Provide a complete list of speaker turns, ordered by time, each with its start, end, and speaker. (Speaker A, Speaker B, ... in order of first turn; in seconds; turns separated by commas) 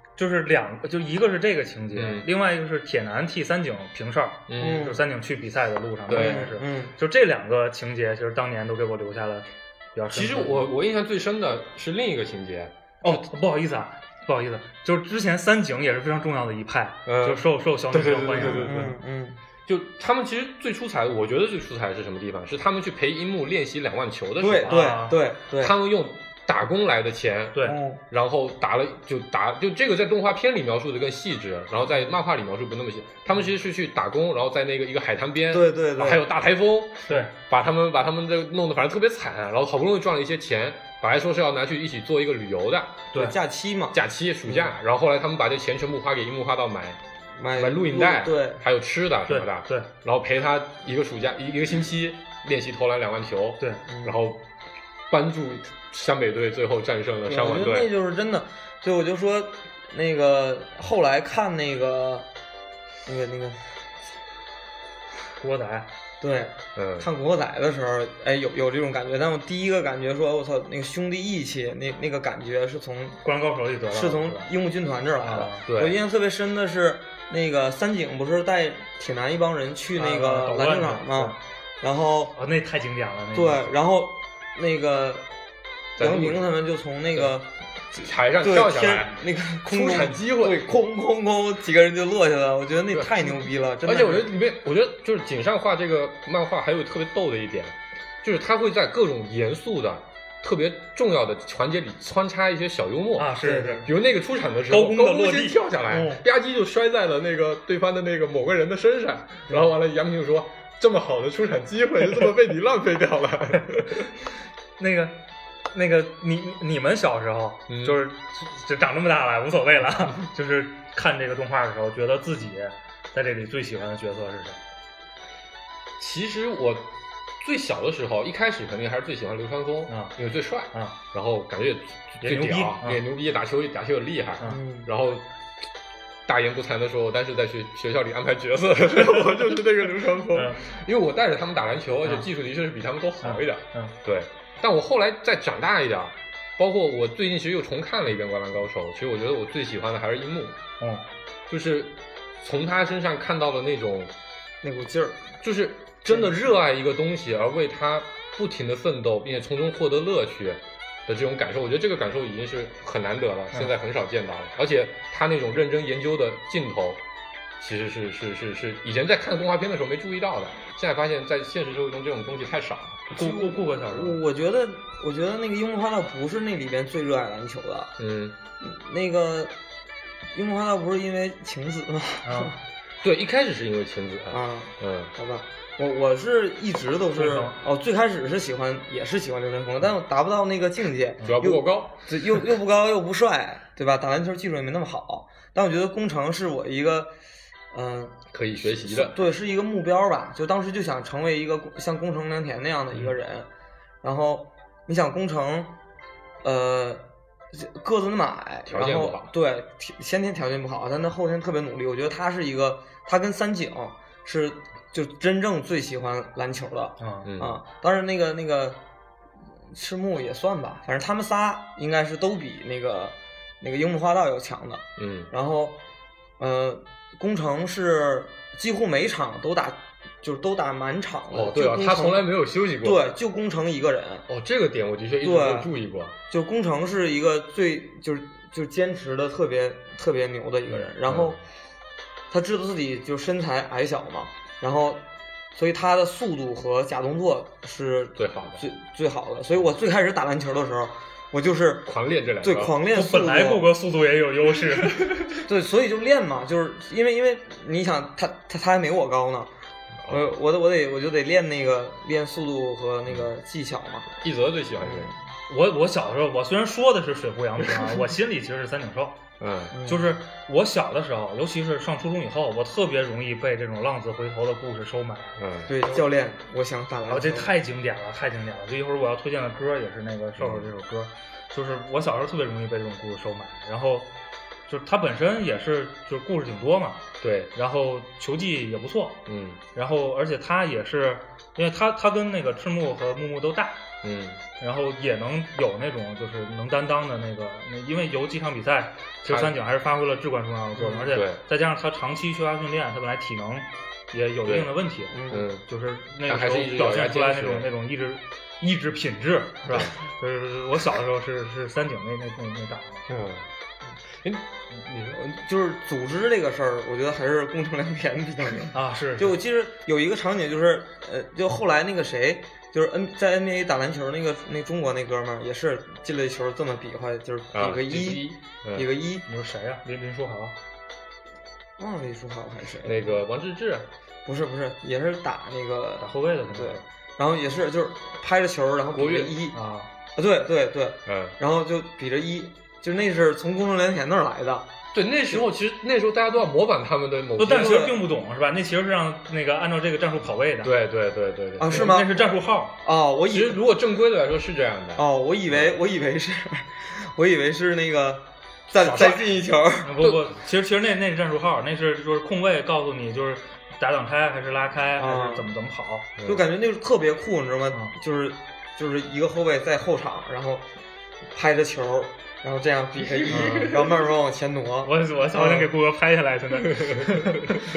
Speaker A: 0.2-10.7, Speaker B: 1.9-2.3, Speaker B: 4.5-4.9, Speaker C: 4.6-5.0, Speaker B: 6.1-6.5, Speaker C: 6.1-6.9, Speaker B: 10.1-13.2, Speaker A: 13.0-18.9, Speaker B: 17.1-18.9, Speaker C: 18.4-19.4, Speaker B: 19.7-24.9, Speaker C: 24.4-25.8, Speaker A: 24.7-25.2, Speaker B: 25.6-43.0, Speaker C: 27.6-28.0, Speaker C: 35.5-36.2, Speaker C: 43.1-44.7, Speaker B: 43.9-47.0, Speaker C: 47.4-48.6, Speaker B: 47.6-54.5, Speaker A: 49.3-49.9, Speaker C: 53.9-54.2, Speaker B: 55.1-57.9, Speaker C: 57.3-62.3, Speaker C: 63.1-63.9, Speaker A: 65.4-65.9, Speaker C: 66.2-73.2, Speaker B: 66.8-67.1, Speaker A: 73.2-74.5, Speaker C: 73.9-82.3, Speaker A: 75.2-75.7, Speaker B: 75.7-76.0, Speaker A: 80.0-81.4, Speaker A: 82.4-83.8, Speaker C: 83.3-85.3, Speaker B: 86.0-86.5, Speaker C: 86.0-94.3, Speaker B: 88.0-90.8, Speaker B: 92.9-114.1, Speaker A: 103.2-103.9, Speaker C: 103.4-103.9, Speaker A: 104.7-106.2, Speaker A: 114.8-115.2, Speaker A: 115.7-124.6, Speaker B: 117.7-118.0, Speaker B: 126.0-135.3, Speaker A: 129.9-130.2, Speaker A: 130.7-131.0, Speaker A: 132.2-133.0, Speaker C: 134.5-134.9, Speaker B: 136.3-150.6, Speaker A: 140.3-140.6, Speaker A: 143.2-143.9, Speaker A: 150.8-151.1, Speaker B: 151.5-154.1, Speaker C: 154.6-155.2, Speaker B: 155.4-167.0, Speaker B: 167.6-173.2, Speaker A: 173.1-174.2, Speaker C: 173.2-177.9, Speaker B: 178.0-178.4, Speaker C: 178.6-179.5, Speaker C: 180.3-182.6, Speaker A: 182.2-182.5, Speaker B: 183.0-185.1, Speaker C: 184.3-197.1, Speaker A: 187.2-187.6, Speaker B: 191.2-192.0, Speaker C: 197.7-203.5, Speaker B: 198.3-199.2, Speaker C: 204.0-205.7, Speaker C: 206.4-218.8, Speaker B: 208.7-209.3, Speaker A: 217.0-217.3, Speaker B: 217.2-217.6, Speaker C: 219.7-225.8, Speaker B: 225.0-225.3, Speaker C: 226.4-234.3, Speaker B: 231.3-233.1, Speaker B: 234.3-236.2, Speaker C: 235.2-235.7, Speaker C: 236.3-241.4, Speaker B: 240.8-241.4, Speaker C: 242.3-245.0, Speaker C: 245.5-251.9, Speaker B: 248.2-248.6, Speaker B: 251.9-252.8, Speaker C: 252.4-253.7, Speaker A: 252.9-255.2, Speaker C: 255.3-259.5, Speaker B: 260.0-260.3, Speaker C: 260.1-264.1, Speaker B: 264.2-265.1, Speaker C: 264.8-265.2, Speaker A: 265.5-269.2, Speaker B: 269.4-269.8, Speaker C: 269.7-270.1, Speaker A: 269.9-275.4, Speaker B: 275.4-275.7, Speaker C: 275.7-277.5, Speaker A: 277.1-284.1, Speaker B: 280.4-280.7, Speaker A: 284.7-289.2, Speaker B: 287.2-287.5, Speaker B: 289.3-289.6, Speaker A: 289.8-293.8, Speaker B: 294.0-294.4, Speaker A: 294.6-313.1, Speaker B: 299.2-299.6, Speaker C: 300.8-301.1, Speaker B: 301.1-301.4, Speaker B: 304.4-304.7, Speaker C: 305.1-305.5, Speaker B: 305.3-305.6, Speaker B: 306.3-307.7, Speaker B: 309.7-309.9, Speaker B: 313.1-313.5, Speaker B: 314.1-315.2, Speaker C: 315.1-329.2, Speaker A: 318.7-319.4, Speaker B: 327.5-328.9, Speaker A: 329.3-330.6, Speaker C: 331.8-333.2, Speaker B: 332.8-333.9, Speaker C: 334.3-339.6, Speaker A: 336.0-336.8, Speaker B: 338.9-339.4, Speaker A: 339.5-339.9, Speaker C: 340.2-344.7, Speaker B: 341.1-341.4, Speaker B: 344.9-347.9, Speaker A: 347.4-350.7, Speaker C: 347.5-348.0, Speaker B: 350.6-351.9, Speaker C: 351.6-353.6, Speaker A: 351.7-352.8, Speaker B: 353.3-355.8, Speaker C: 355.0-359.9, Speaker B: 358.7-359.4, Speaker A: 359.8-366.1, Speaker C: 365.0-365.5, Speaker B: 366.2-366.4, Speaker C: 366.2-370.6, Speaker C: 371.3-375.7, Speaker B: 373.1-373.9, Speaker A: 373.3-373.8, Speaker A: 374.9-377.6, Speaker B: 376.6-377.6